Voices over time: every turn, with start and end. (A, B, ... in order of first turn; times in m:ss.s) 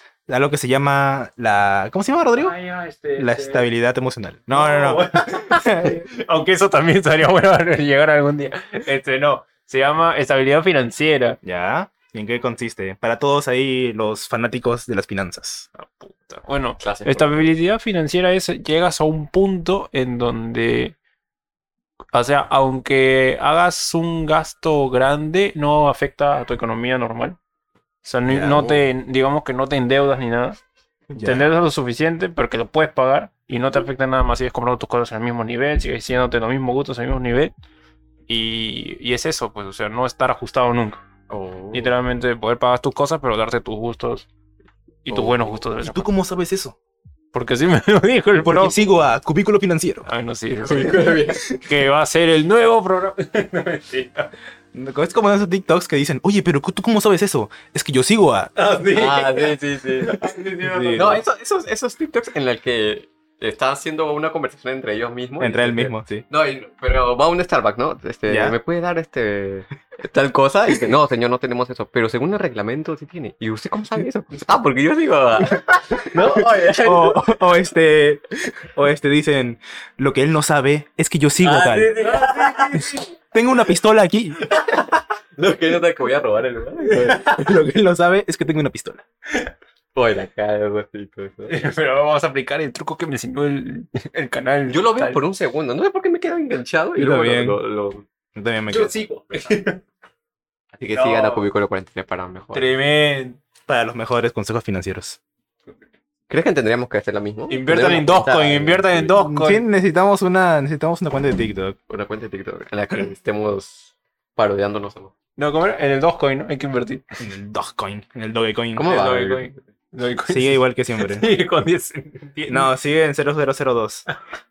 0:00.3-0:02.6 A
0:02.4-0:03.7 B
0:03.2-0:06.0 A
0:04.5-0:11.4 B
0:11.4-0:15.7 A
0:15.8-0:21.0 B
0:16.8-0:17.5 C
0:22.1-0:27.4 B
0:28.0-0:30.6 B
0:28.3-0:28.7 A
0:28.4-0:28.8 C
0:31.1-0:31.5 A
0:31.2-0:37.5 B
0:38.3-0:41.0 B
0:41.3-0:41.9 C
0:41.7-0:44.3 B
0:45.0-0:46.1 B
0:45.1-0:45.6 C
0:45.8-0:46.8 A
0:47.3-0:48.8 B
0:48.4-0:50.1 A
0:50.1-0:54.3 B
0:50.6-0:51.4 C
0:54.7-0:58.5 A
0:58.6-1:01.2 B
0:58.9-1:00.2 C
1:00.6-1:01.2 A
1:00.9-1:17.4 C
1:05.4-1:06.3 A
1:08.3-1:08.6 A
1:16.8-1:21.9 A
1:21.4-1:23.0 C
1:21.8-1:23.0 B
1:23.3-1:24.4 A
1:24.5-1:27.6 C
1:26.9-1:27.4 B
1:27.2-1:29.0 A
1:30.0-1:31.6 C
1:31.5-1:35.2 B
1:34.7-1:38.1 C
1:37.0-1:37.6 A
1:38.4-1:39.0 A
1:38.7-1:39.8 B
1:40.7-1:42.7 C
1:40.9-1:41.5 B
1:42.5-1:43.4 B
1:43.7-1:45.2 A
1:46.3-1:49.2 C
1:47.5-1:49.6 B
1:49.2-1:51.8 A
1:51.9-1:55.1 C
1:55.4-1:57.0 B
1:57.2-1:58.9 A
1:58.8-1:59.5 C
1:58.8-2:02.7 B
2:00.3-2:01.3 A
2:02.5-2:04.0 A